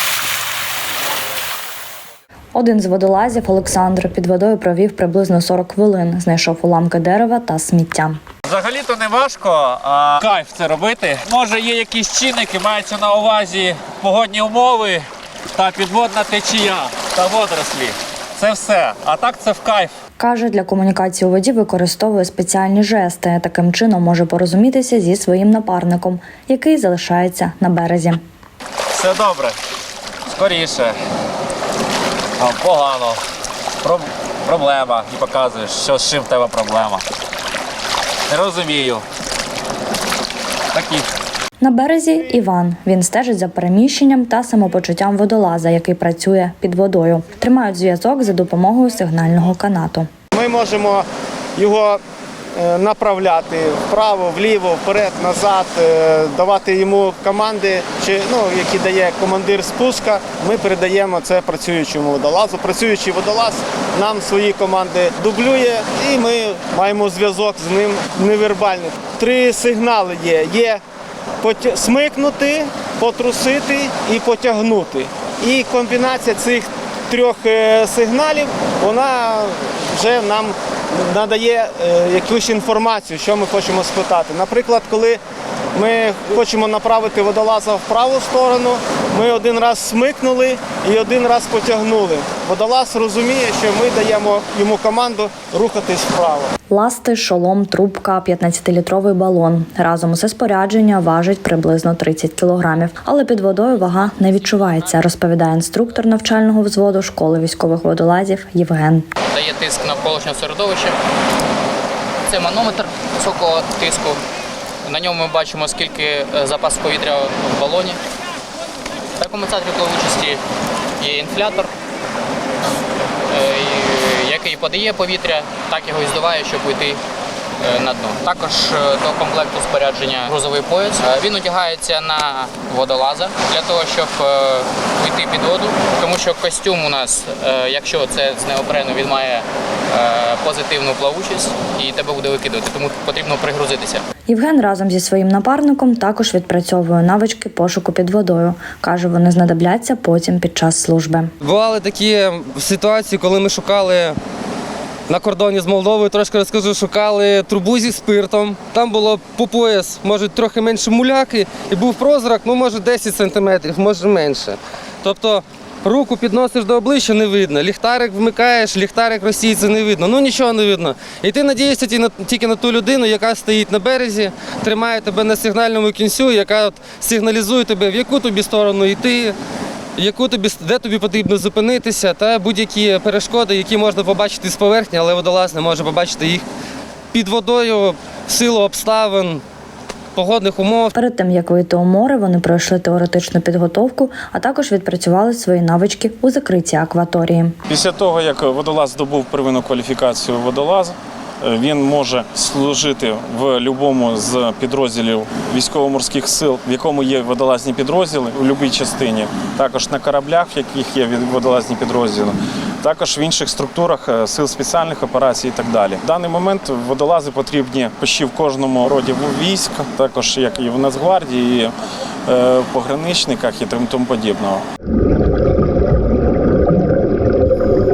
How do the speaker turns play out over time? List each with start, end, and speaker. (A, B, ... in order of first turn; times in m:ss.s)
0:02.5-0:08.2 A
0:08.4-0:19.9 B
0:20.2-0:28.2 A
0:28.9-0:29.6 B
0:30.2-0:31.0 B
0:32.4-0:33.2 B
0:33.8-0:37.0 B
0:38.3-0:39.0 B
0:40.7-0:41.1 B
0:41.6-0:50.1 A
0:50.3-0:52.0 C
0:52.5-1:10.8 C
1:11.4-1:25.2 C
1:25.7-1:36.5 C
1:36.7-1:49.1 A
1:44.0-1:44.6 D
1:49.3-1:51.0 D
1:52.3-1:54.2 D
1:54.8-1:58.0 D
1:59.2-2:00.4 D
2:01.0-2:01.7 D
2:03.3-2:07.0 D
2:07.6-2:24.0 D
2:24.3-2:31.3 A
2:31.4-2:34.2 E
2:35.1-2:59.4 E
3:00.0-3:06.4 E
3:07.1-3:09.4 E
3:10.1-3:10.9 E
3:10.9-3:17.6 A
3:17.7-3:41.7 F
3:42.3-3:44.6 F